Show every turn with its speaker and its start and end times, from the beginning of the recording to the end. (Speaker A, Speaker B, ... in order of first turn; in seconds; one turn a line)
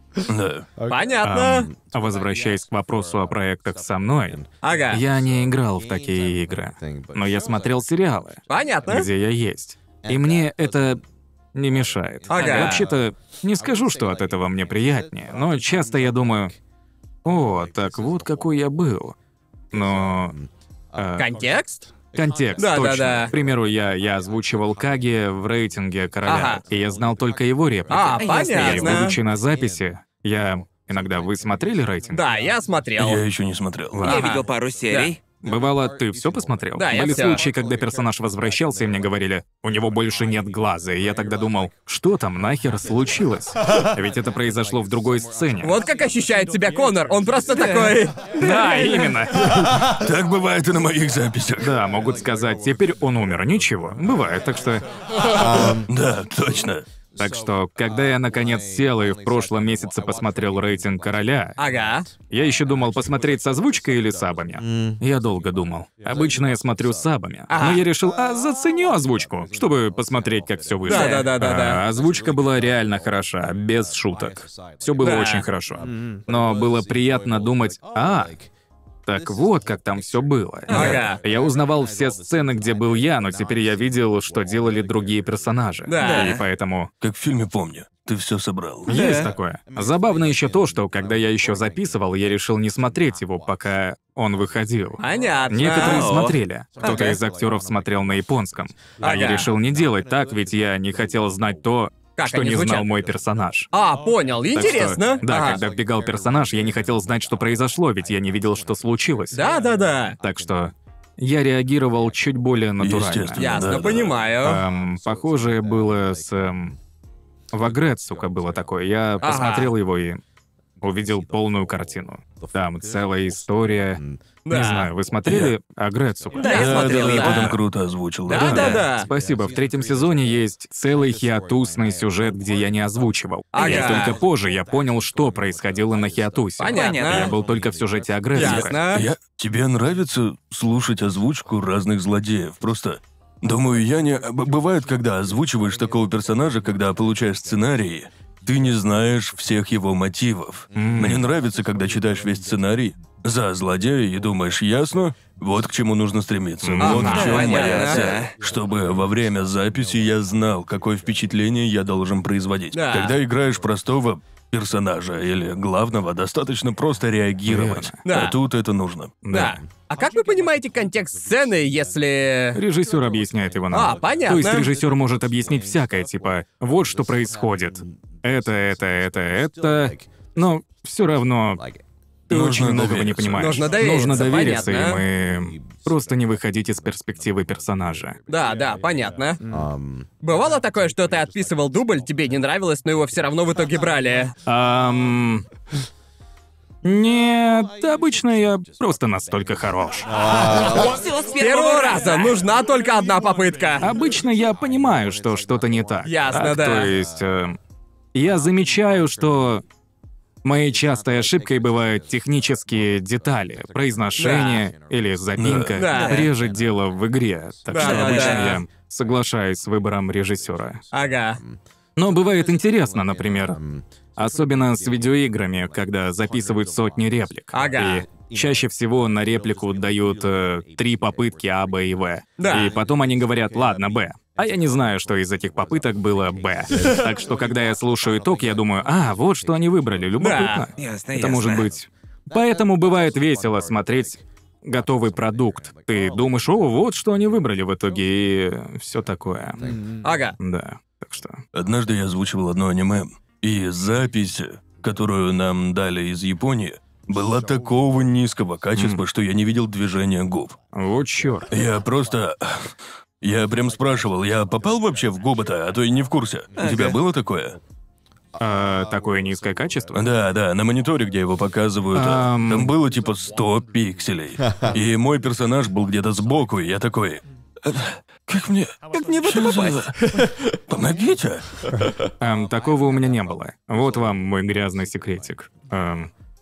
Speaker A: 0.2-0.7
Speaker B: 0.9-1.7
Speaker C: 1.2-11.0
Speaker B: 4.6-5.0
Speaker D: 6.8-7.1
Speaker B: 8.5-9.1
Speaker C: 11.5-16.5
Speaker B: 12.3-12.9
Speaker C: 17.2-19.1
Speaker C: 19.7-20.4
Speaker C: 20.9-21.3
Speaker B: 21.2-21.9
Speaker C: 22.1-32.3
Speaker B: 22.6-23.3
Speaker B: 26.2-26.6
Speaker B: 27.9-29.2
Speaker E: 28.2-28.9
Speaker B: 32.1-33.2
Speaker A: 33.0-34.0
Speaker C: 33.9-34.3
Speaker B: 34.0-35.1
Speaker E: 34.0-35.2
Speaker C: 35.4-45.8
Speaker B: 36.7-37.4
Speaker B: 45.6-49.2
Speaker E: 47.5-48.0
Speaker C: 48.4-50.0
Speaker A: 49.9-51.7
Speaker C: 51.6-54.9
Speaker D: 55.3-55.9
Speaker C: 55.4-55.7
Speaker A: 55.9-56.8
Speaker C: 57.2-61.6
Speaker B: 61.6-62.1
Speaker C: 62.3-78.4
Speaker D: 64.6-65.0
Speaker B: 67.5-67.8
Speaker B: 70.8-71.8
Speaker E: 70.9-71.3
Speaker B: 75.0-75.5
Speaker C: 79.0-86.9
Speaker B: 80.7-81.2
Speaker B: 85.9-86.4
Speaker E: 86.0-86.4
Speaker A: 87.0-88.9
Speaker C: 88.8-103.7
Speaker E: 88.9-89.3
Speaker B: 95.0-97.2
Speaker E: 95.7-97.2
Speaker B: 99.0-99.5
Speaker B: 102.2-102.9
Speaker B: 103.7-105.6
Speaker C: 104.5-109.4
Speaker B: 109.3-110.2
Speaker C: 110.2-113.6
Speaker A: 112.8-114.2
Speaker B: 113.4-114.6
Speaker C: 114.4-116.8
Speaker C: 117.5-120.2
Speaker B: 119.2-119.7
Speaker C: 120.8-127.6
Speaker B: 124.4-124.9
Speaker A: 125.2-125.5
Speaker E: 126.3-127.1
Speaker B: 126.3-127.6
Speaker A: 126.5-128.7
Speaker B: 128.3-129.1
Speaker C: 128.3-138.8
Speaker E: 128.4-128.8
Speaker B: 133.5-134.2
Speaker E: 133.6-133.8
Speaker B: 136.6-137.3
Speaker E: 136.7-137.3
Speaker B: 138.3-139.1
Speaker A: 138.3-169.1
Speaker C: 150.7-151.3
Speaker C: 156.6-157.3
Speaker B: 156.8-158.0
Speaker E: 157.0-158.3
Speaker B: 162.7-163.2
Speaker C: 167.4-168.0
Speaker B: 168.0-168.3
Speaker C: 169.2-169.6
Speaker B: 169.3-172.6
Speaker C: 172.5-181.7
Speaker B: 173.7-174.7
Speaker C: 182.3-188.2
Speaker A: 182.3-183.7
Speaker B: 183.4-185.0
Speaker B: 188.3-189.4
Speaker D: 189.5-190.1
Speaker B: 190.2-194.3
Speaker C: 194.4-195.4
Speaker C: 196.8-200.2
Speaker D: 200.1-200.9
Speaker E: 200.2-202.4
Speaker B: 201.4-203.9
Speaker C: 203.8-207.6
Speaker B: 206.0-206.9
Speaker C: 208.1-209.6
Speaker C: 210.4-220.8
Speaker B: 214.2-214.6
Speaker A: 215.4-215.8
Speaker B: 215.8-216.3
Speaker E: 215.8-216.3
Speaker B: 217.7-218.6
Speaker E: 217.7-218.6
Speaker B: 220.9-221.4
Speaker C: 221.9-249.8
Speaker B: 227.5-228.1
Speaker B: 232.4-232.7
Speaker B: 240.2-240.6
Speaker E: 240.8-241.7
Speaker B: 250.0-250.4
Speaker C: 250.4-251.4
Speaker A: 251.5-260.5
Speaker C: 258.8-259.0
Speaker C: 260.7-261.5
Speaker A: 261.5-267.6
Speaker E: 266.5-267.0
Speaker C: 268.4-270.0
Speaker A: 269.9-281.9
Speaker C: 271.9-272.7
Speaker E: 278.9-279.8
Speaker C: 282.2-286.1